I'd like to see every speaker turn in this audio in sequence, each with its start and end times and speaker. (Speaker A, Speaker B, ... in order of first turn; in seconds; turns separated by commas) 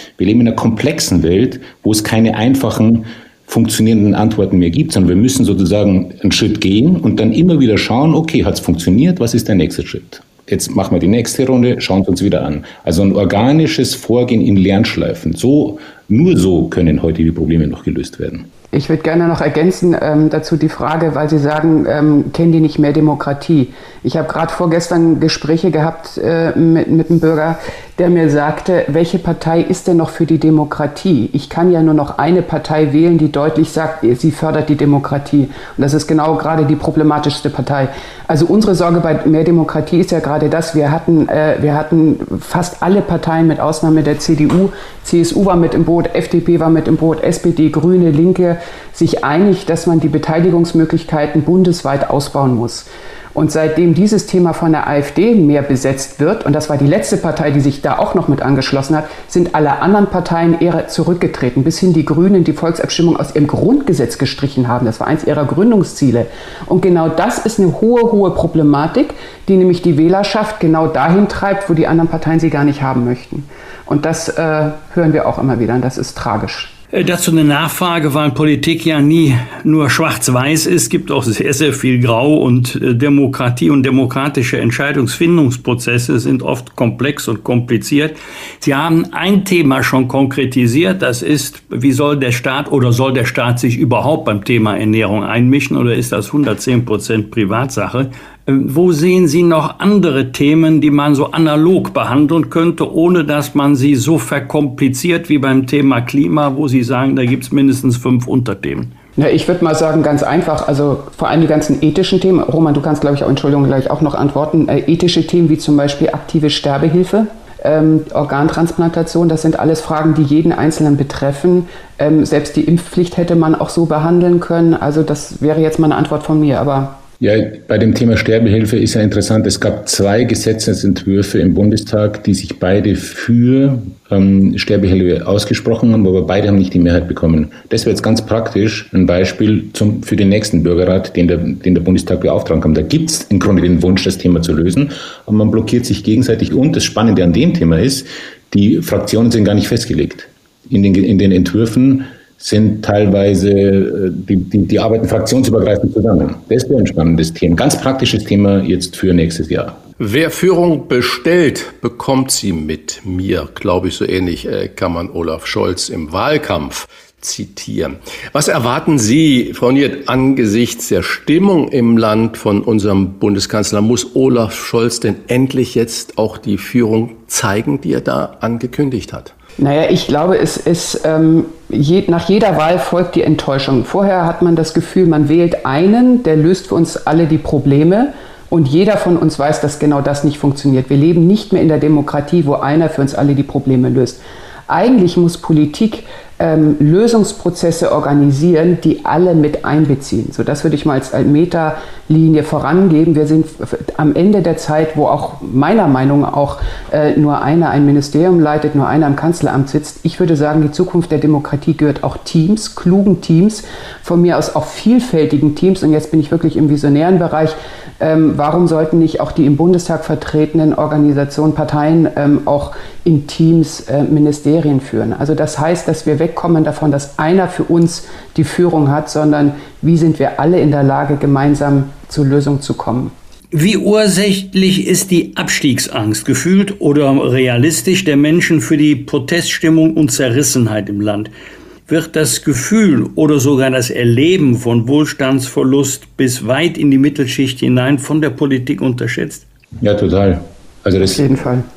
Speaker A: 0.2-18.5, Speaker B: 18.7-76.7, Speaker C: 76.9-108.9, Speaker B: 109.2-127.0, Speaker A: 127.2-159.8, Speaker D: 160.0-179.3, Speaker B: 179.6-233.1, Speaker C: 233.5-241.3, Speaker C: 241.9-249.4, Speaker A: 249.8-251.3, Speaker B: 251.1-251.7